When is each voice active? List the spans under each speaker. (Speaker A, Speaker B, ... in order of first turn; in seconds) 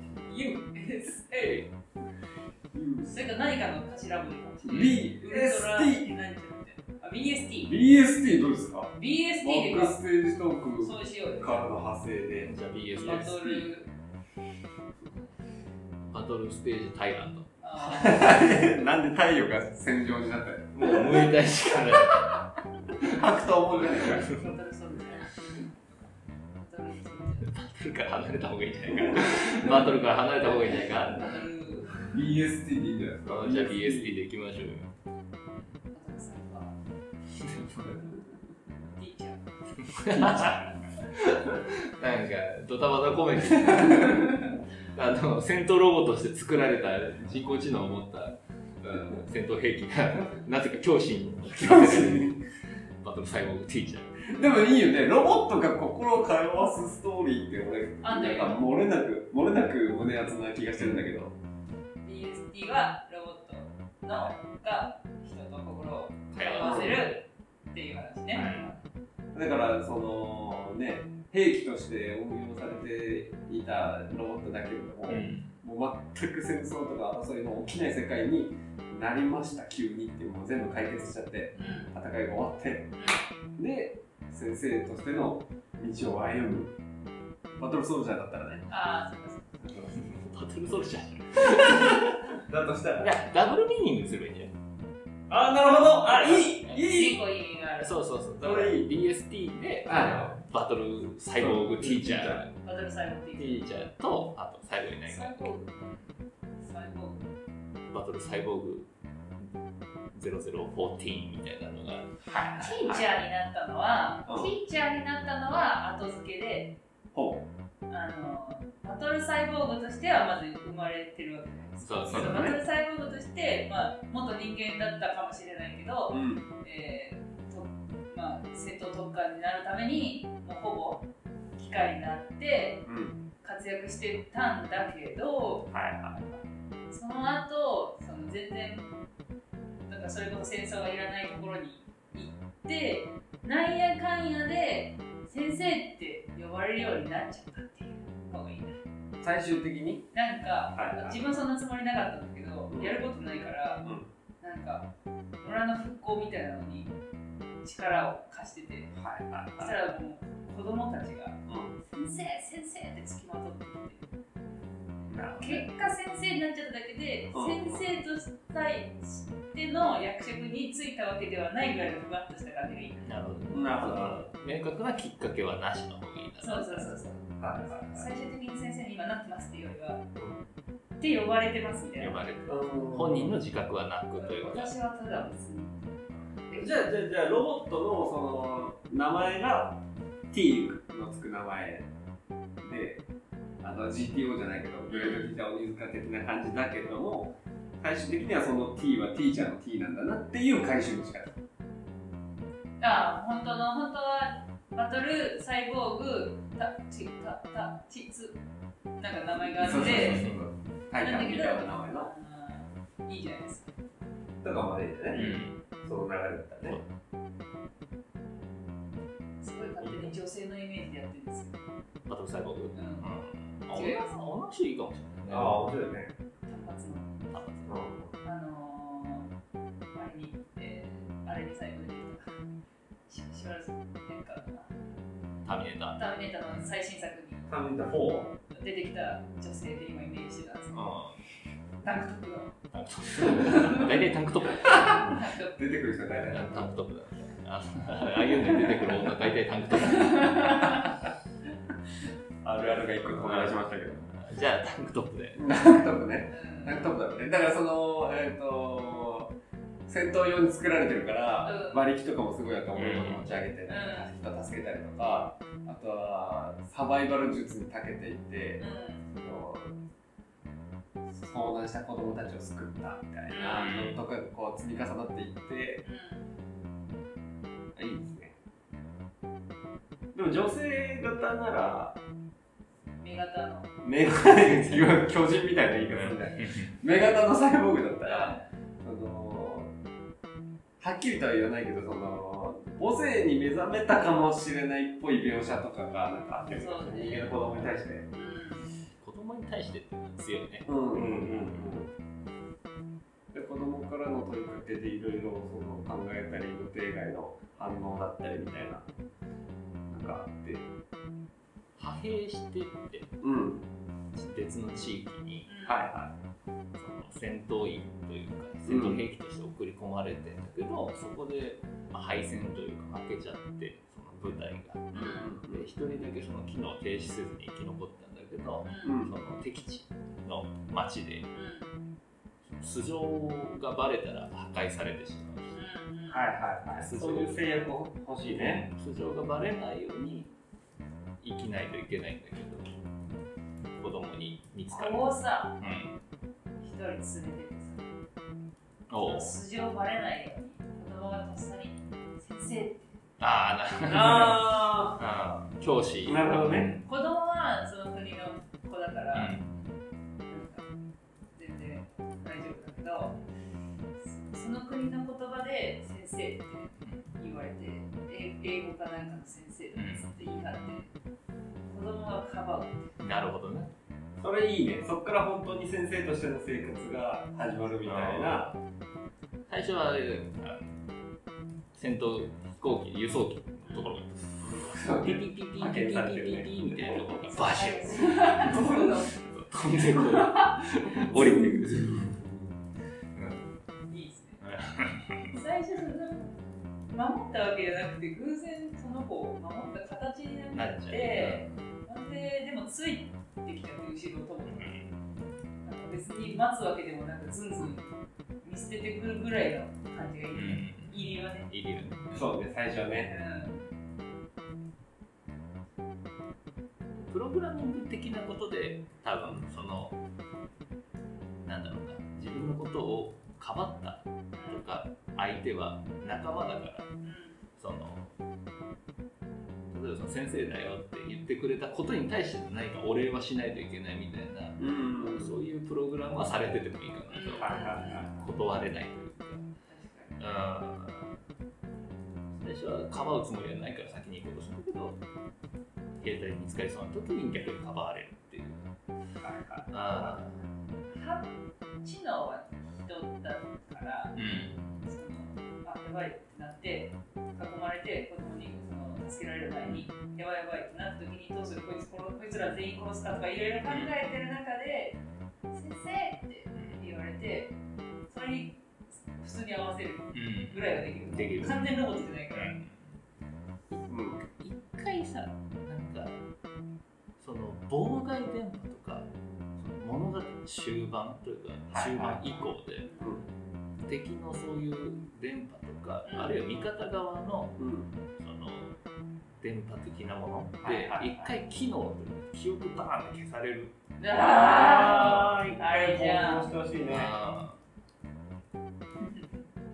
Speaker A: 0.3-1.7, 3.0-7.8, 8.9-10.0, 10.8-11.6, 13.0-13.9, 17.6-18.4, 24.2-25.4, 26.5-27.5, 29.6-32.1, 35.9-36.7, 38.9-39.4, 58.0-58.6, 62.0-68.7, 81.5-81.9, 83.0-83.2, 88.7-89.5, 96.7-98.0, 102.6-103.7, 105.1-105.7, 106.6-107.2, 112.6-116.8, 117.9-132.9, 133.4-135.7, 136.9-138.9, 139.9-148.8, 150.1-153.8, 154.4-156.9, 157.6-158.9, 159.6-164.1, 165.4-173.1, 176.4-180.0, 181.0-182.2, 184.2-185.9, 194.9-195.3, 202.8-208.4, 209.0-210.2, 211.0-213.9, 219.4-221.6, 222.7-223.1, 223.7-224.2, 226.4-227.2, 228.2-229.3, 229.9-232.2, 233.1-234.7, 235.9-237.5, 238.5-240.9, 241.8-244.1, 244.6-245.5, 249.8-250.9, 256.3-256.9, 261.4-261.8, 263.7-264.1, 268.6-269.0, 273.3-273.8, 275.8-276.3, 283.0-283.7, 288.0-288.4, 296.4-297.2, 298.1-298.7, 315.4-315.8, 324.9-325.3, 328.6-329.0, 331.3-331.7, 335.5-336.2, 344.7-345.6, 346.6-347.9, 349.0-352.9, 356.8-359.4, 360.3-360.6, 361.3-363.2, 364.0-370.9, 371.7-372.9, 387.3-389.1, 390.0-390.5, 393.9-394.4, 395.3-396.4, 396.9-404.7, 405.6-407.9, 408.4-411.5, 413.1-413.7, 424.3-424.6, 427.0-427.4, 437.1-438.1, 439.7-440.2, 450.9-454.2, 454.8-465.0, 465.5-467.5, 468.1-472.5, 482.8-483.2, 486.0-486.4, 494.0-496.5
Speaker B: 2.7-3.1, 4.7-6.1, 7.7-12.5, 13.1-13.7, 17.8-21.3, 21.9-22.3, 22.9-24.3, 29.1-29.4, 32.0-34.2, 40.1-40.7, 43.6-44.2, 48.9-49.2, 51.6-52.4, 54.2-61.3, 66.6-67.0, 69.3-82.9, 83.6-86.7, 87.6-88.7, 89.6-90.1, 91.7-93.1, 95.3-97.2, 98.4-98.9, 99.9-100.3, 101.3-102.5, 112.2-113.0, 114.3-114.5, 117.1-117.5, 122.1-122.6, 126.1-126.4, 132.8-133.2, 135.7-136.4, 149.2-150.1, 150.7-151.2, 152.7-153.0, 159.0-159.7, 161.5-161.8, 165.1-165.7, 167.3-167.8, 173.5-174.2, 177.4-178.1, 182.5-183.3, 186.5-189.8, 190.3-191.9, 192.6-193.0, 193.6-201.4, 209.4-212.1, 214.4-216.8, 219.8-220.1, 225.3-226.1, 227.7-228.2, 237.5-238.3, 245.6-246.7, 252.4-254.0, 255.3-259.3, 259.9-269.7, 271.1-275.8, 277.8-278.3, 280.1-282.0, 283.8-289.7, 290.8-298.1, 300.6-301.9, 303.3-308.9, 309.9-310.7, 313.2-313.6, 315.6-316.1, 318.6-319.0, 324.9-325.7, 328.8-329.1, 336.1-338.6, 353.9-355.0, 356.0-356.7, 374.2-378.5, 384.4-387.2, 387.9-388.8, 391.0-392.4, 412.1-413.1, 434.6-435.4, 437.4-438.1, 449.2-450.1, 473.9-474.2, 481.7-482.2, 487.6-487.9, 490.6-491.3, 494.1-497.1
Speaker C: 4.7-5.0, 12.4-13.3, 16.1-17.5, 20.7-22.4, 23.7-24.4, 27.4-31.4, 33.2-34.9, 35.5-35.8, 37.3-38.0, 39.8-52.3, 53.0-54.2, 60.8-61.0, 66.3-67.0, 68.3-68.7, 75.1-75.5, 90.0-92.3, 93.0-94.5, 96.4-96.8, 97.8-102.5, 103.4-106.1, 107.9-109.5, 110.1-112.1, 121.8-122.5, 173.0-176.9, 182.0-184.7, 209.6-210.4, 215.1-215.5, 222.1-225.7, 227.3-227.8, 235.4-236.7, 240.7-241.2, 242.7-245.2, 246.2-250.8, 253.0-255.4, 262.7-263.4, 273.5-274.0, 284.6-284.9, 285.9-286.7, 296.9-297.7, 299.0-301.8, 311.8-313.1, 314.1-315.5, 316.8-331.3, 332.4-335.5, 336.7-337.4, 338.3-340.3, 341.2-342.7, 343.8-345.0, 345.6-345.9, 348.9-349.3, 353.2-356.9, 359.1-359.7, 369.7-370.8, 373.0-373.7, 377.8-378.6, 379.5-380.8, 381.7-384.4, 385.0-392.1, 393.1-393.5, 394.4-395.4, 400.5-401.6, 404.5-404.9, 410.3-411.0, 411.5-412.2, 416.9-420.0, 421.4-426.9, 427.6-428.1, 429.7-439.4, 440.2-441.2, 442.4-445.0, 446.0-448.7, 449.7-450.3, 454.1-454.7, 463.7-463.9, 470.1-472.9, 474.4-476.1, 477.2-482.9, 483.8-487.6, 488.2-488.8, 489.4-493.8, 494.8-495.3, 496.9-497.6